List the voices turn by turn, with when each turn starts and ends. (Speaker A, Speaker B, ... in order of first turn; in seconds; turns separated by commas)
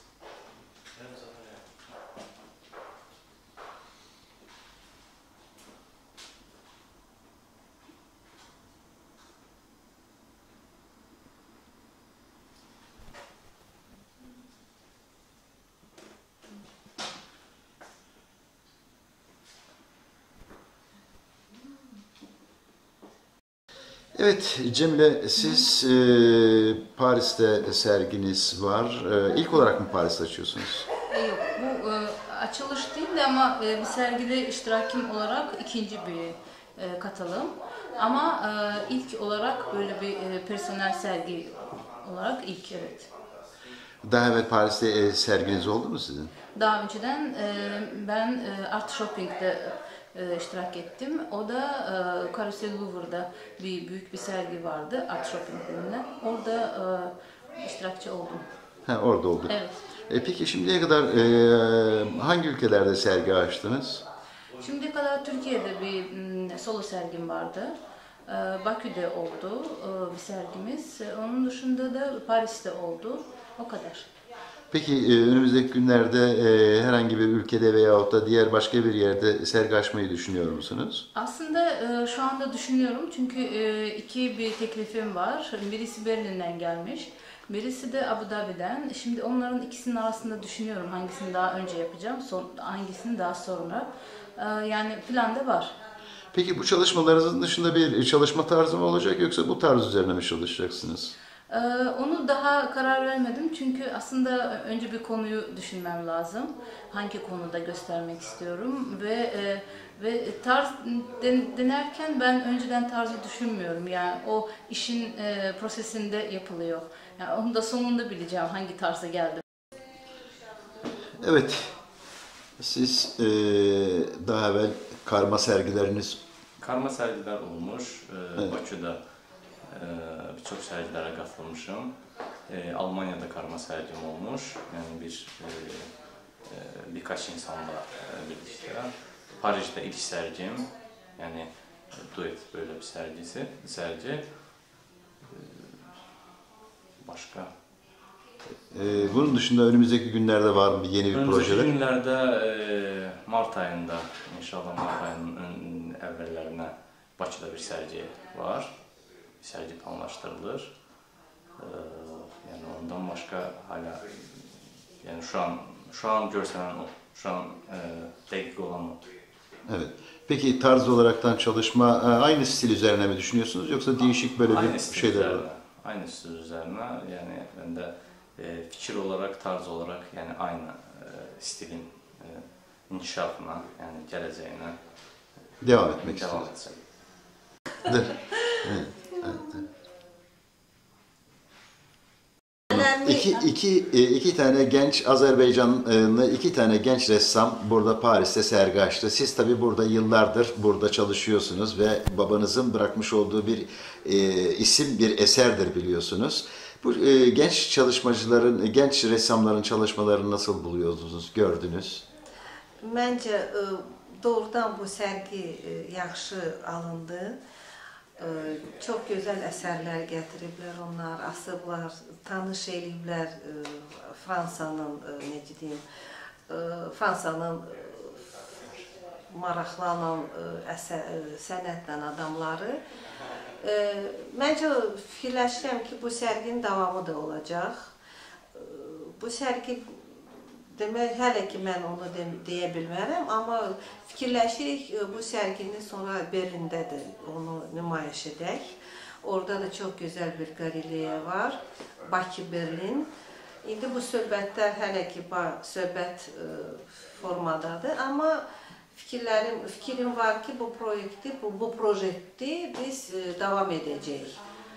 Speaker A: 0.9-1.6, Speaker B: 24.1-30.9, Speaker C: 31.1-43.1, Speaker B: 44.0-46.3, Speaker C: 46.5-58.5, Speaker B: 58.9-59.5, Speaker C: 59.5-59.9, Speaker B: 60.1-64.0, Speaker C: 64.6-67.8, Speaker C: 68.3-74.1, Speaker B: 74.7-81.0, Speaker C: 81.1-95.8, Speaker B: 96.3-101.1, Speaker C: 101.5-119.4, Speaker B: 121.1-121.8, Speaker B: 122.6-126.2, Speaker A: 126.6-129.0, Speaker A: 129.7-131.9, Speaker A: 132.5-135.9, Speaker A: 136.4-144.7, Speaker A: 145.3-145.7, Speaker A: 147.0-147.5, Speaker B: 148.7-151.8, Speaker A: 151.1-158.8, Speaker A: 159.4-160.7, Speaker A: 161.6-169.1, Speaker B: 169.7-175.4, Speaker A: 174.5-184.8, Speaker B: 185.6-186.5, Speaker A: 186.0-186.8, Speaker B: 188.6-189.4, Speaker B: 192.7-212.0, Speaker D: 192.7-193.2, Speaker D: 212.8-217.4, Speaker D: 218.2-225.8, Speaker D: 226.5-228.3, Speaker D: 229.3-232.8, Speaker D: 233.6-237.9, Speaker D: 238.6-240.0, Speaker D: 240.7-253.1, Speaker D: 253.6-258.4, Speaker D: 258.9-264.4